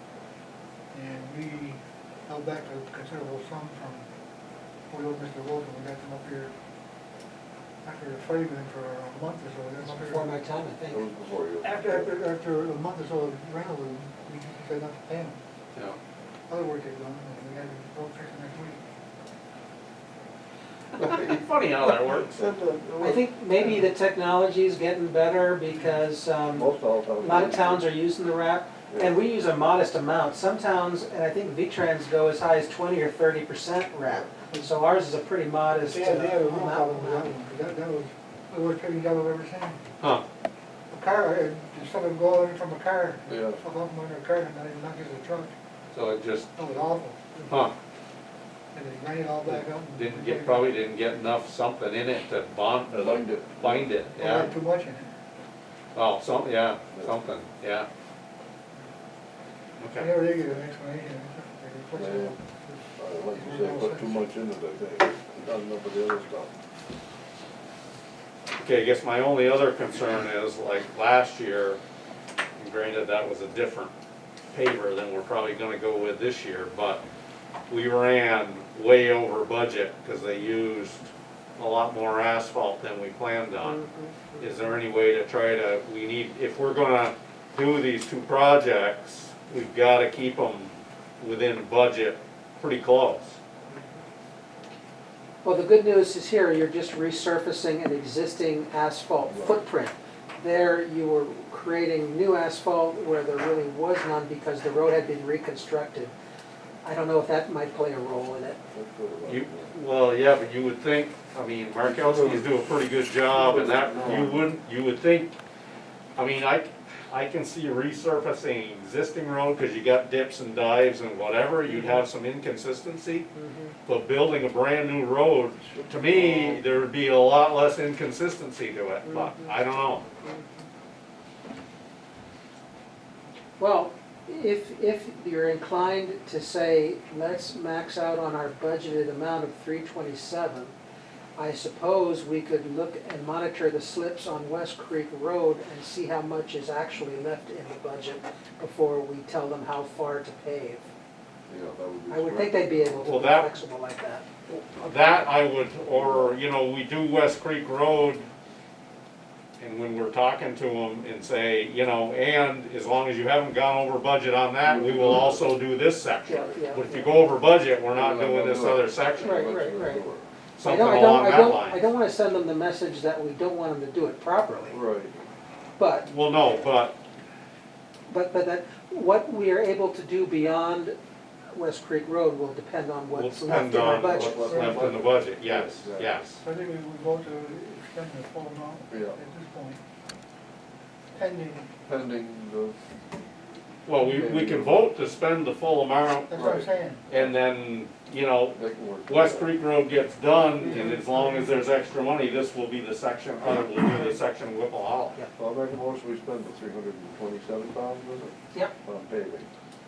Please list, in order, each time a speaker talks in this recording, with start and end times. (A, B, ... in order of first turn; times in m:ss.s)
0:00.9-0:04.1 A
0:04.9-0:06.5 A
0:07.8-0:10.3 A
0:09.8-0:11.1 B
0:10.9-0:12.1 C
0:11.6-0:15.4 A
0:16.5-0:18.8 A
0:20.9-0:22.4 D
0:21.8-0:23.8 C
0:23.0-0:37.3 B
0:26.5-0:27.9 C
0:28.9-0:29.2 C
0:35.8-0:39.8 A
0:40.9-0:45.5 A
0:43.3-0:43.6 C
0:45.9-0:46.5 D
0:46.6-0:47.3 A
0:47.5-0:47.7 D
0:48.7-0:50.7 A
0:50.0-0:54.5 D
0:52.9-0:54.0 C
0:54.2-0:55.1 A
0:56.0-0:57.9 D
0:59.8-1:00.2 D
1:00.0-1:02.8 A
1:02.0-1:02.4 C
1:03.0-1:06.5 C
1:03.3-1:04.2 A
1:08.6-1:11.8 D
1:12.6-1:13.9 D
1:14.5-1:17.0 D
1:17.7-1:23.8 D
1:23.6-1:24.5 B
1:24.4-1:33.4 D
1:35.4-1:46.1 B
1:39.3-1:39.6 C
1:46.8-1:48.6 B
1:48.7-1:49.8 C
1:49.3-1:55.4 D
1:51.8-1:52.5 C
1:53.3-1:54.5 C
1:56.2-2:03.3 D
2:01.7-2:02.0 B
2:03.4-2:03.8 B
2:03.9-2:10.1 D
2:05.6-2:06.7 C
2:09.1-2:09.6 B
2:10.2-2:10.5 B
2:13.6-2:20.8 B
2:21.4-2:30.9 B
2:31.5-2:32.8 C
2:32.1-2:34.3 B
2:33.0-2:33.5 D
2:34.5-2:38.3 D
2:35.9-2:36.3 C
2:39.6-2:49.5 D
2:44.6-2:45.6 C
2:46.3-2:47.3 B
2:47.9-2:50.3 C
2:49.2-2:50.0 B
2:50.6-2:51.8 D
2:50.6-2:54.8 B
2:54.7-2:55.2 C
2:55.8-2:56.1 B
2:56.0-2:57.0 D
2:58.1-3:01.0 B
3:01.5-3:04.5 B
3:03.1-3:06.4 D
3:04.0-3:06.2 C
3:04.5-3:05.0 A
3:06.4-3:09.8 A
3:08.9-3:09.2 C
3:11.2-3:11.7 A
3:11.9-3:12.8 C
3:13.9-3:16.4 D
3:14.0-3:14.8 C
3:16.3-3:17.0 A
3:16.4-3:17.3 C
3:17.1-3:25.2 D
3:18.5-3:19.5 C
3:21.1-3:21.6 A
3:25.4-3:29.5 C